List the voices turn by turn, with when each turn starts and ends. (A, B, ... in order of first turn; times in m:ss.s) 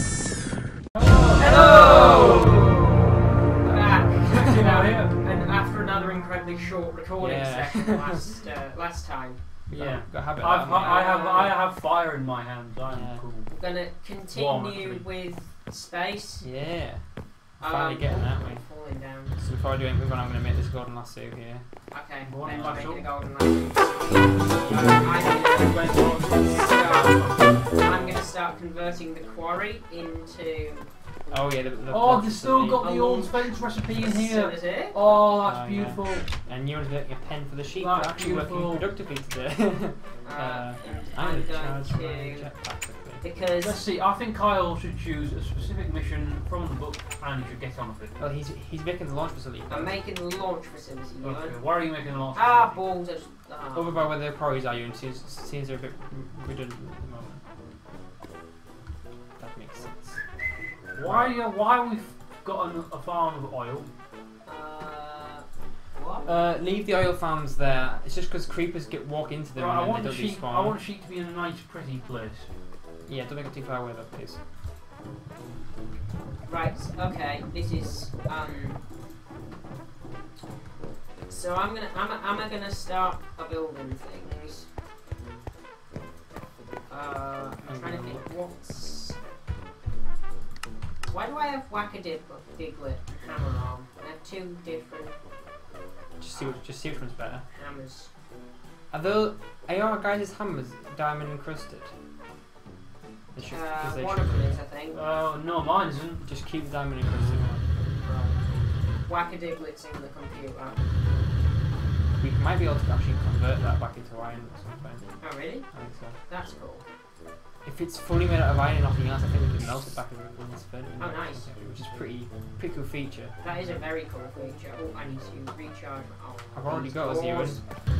0:00.9-0:02.8 A
0:01.4-0:09.4 B
0:03.6-0:04.5 C
0:04.2-0:05.1 A
0:07.2-0:08.4 C
0:09.7-0:11.0 C
0:09.7-0:13.6 A
0:10.6-0:11.6 B
0:12.9-0:13.2 C
0:13.5-0:16.5 B
0:14.3-0:15.1 A
0:16.4-0:18.7 C
0:17.6-0:19.3 B
0:19.3-0:21.9 C
0:21.9-0:31.5 B
0:22.2-0:23.1 A
0:22.4-0:22.9 C
0:24.6-0:25.2 C
0:24.7-0:27.7 A
0:31.3-0:32.9 C
0:31.9-0:36.3 A
0:32.8-0:35.0 B
0:35.4-0:43.2 C
0:37.7-0:38.9 A
0:40.2-0:42.5 B
0:43.2-0:43.8 B
0:43.6-0:48.1 A
0:48.2-0:49.9 C
0:49.7-0:54.1 B
0:51.2-0:52.8 A
0:53.7-0:57.4 C
0:59.4-1:00.2 C
1:00.9-1:03.9 A
1:01.0-1:01.4 C
1:04.4-1:06.3 B
1:06.2-1:10.8 C
1:09.5-1:12.5 A
1:13.0-1:14.4 C
1:16.4-1:18.8 B
1:21.3-1:24.7 B
1:26.9-1:29.2 B
1:27.6-1:28.3 C
1:31.0-1:35.1 B
1:36.2-1:37.4 C
1:36.4-1:36.6 B
1:37.5-1:38.1 B
1:38.9-1:41.9 C
1:43.3-1:44.6 C
1:43.4-1:45.0 B
1:44.9-1:46.3 A
1:46.2-1:47.6 C
1:47.2-1:47.6 A
1:48.0-1:48.5 B
1:49.0-1:50.8 B
1:52.2-1:56.2 C
1:55.2-1:56.8 B
1:57.6-2:03.7 C
2:01.0-2:01.6 B
2:03.4-2:07.6 B
2:06.5-2:07.6 C